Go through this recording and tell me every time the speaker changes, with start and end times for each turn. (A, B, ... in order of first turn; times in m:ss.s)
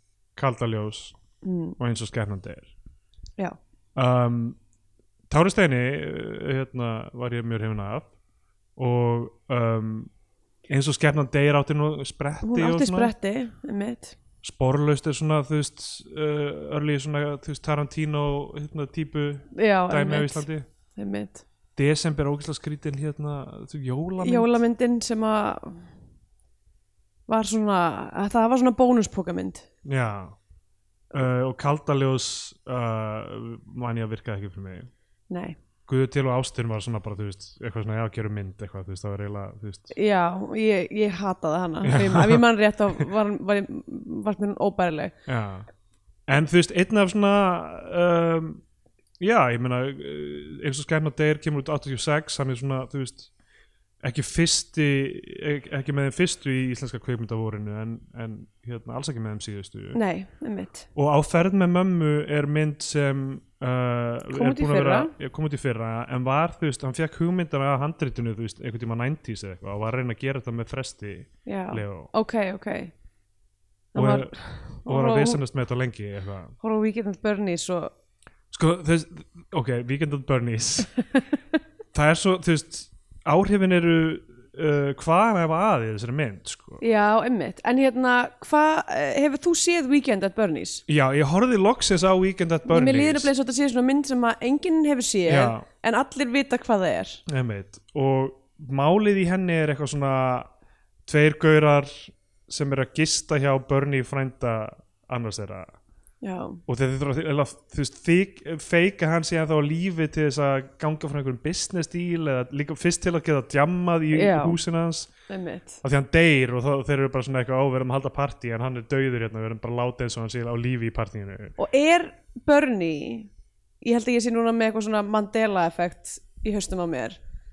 0:00.4-0:01.2 A
0:01.4-0:01.8 B
0:01.8-0:02.7 A
0:04.0-0:04.6 A
0:05.3-0:08.1 A
0:08.8-0:10.1 A
0:10.7-0:13.1 A
0:12.4-0:14.2 B
0:14.4-0:20.6 A
0:19.5-0:20.4 B
0:21.0-0:21.4 B
0:21.8-0:24.5 A
0:24.2-0:25.9 B
0:27.3-0:29.7 B
0:29.8-0:30.4 A
0:31.1-0:34.9 A
0:35.3-0:35.6 B
0:35.9-0:39.9 A
0:39.9-0:45.1 B
0:41.8-0:42.4 A
0:45.3-0:45.7 A
0:46.3-0:48.6 A
0:49.2-0:53.3 A
0:54.0-1:00.0 A
1:00.0-1:00.9 B
1:01.0-1:12.1 A
1:04.3-1:05.1 B
1:11.4-1:12.9 B
1:13.9-1:15.4 B
1:14.0-1:16.6 A
1:16.6-1:17.9 B
1:18.5-1:20.9 A
1:21.9-1:26.8 A
1:26.8-1:30.8 B
1:30.9-1:33.3 A
1:32.7-1:37.2 B
1:35.3-1:35.7 A
1:37.3-1:40.5 A
1:41.1-1:45.8 A
1:46.2-1:46.6 B
1:46.7-1:55.1 A
1:54.1-1:54.6 B
1:55.3-1:55.8 B
1:55.8-2:01.6 A
2:01.6-2:03.3 B
2:03.8-2:07.2 B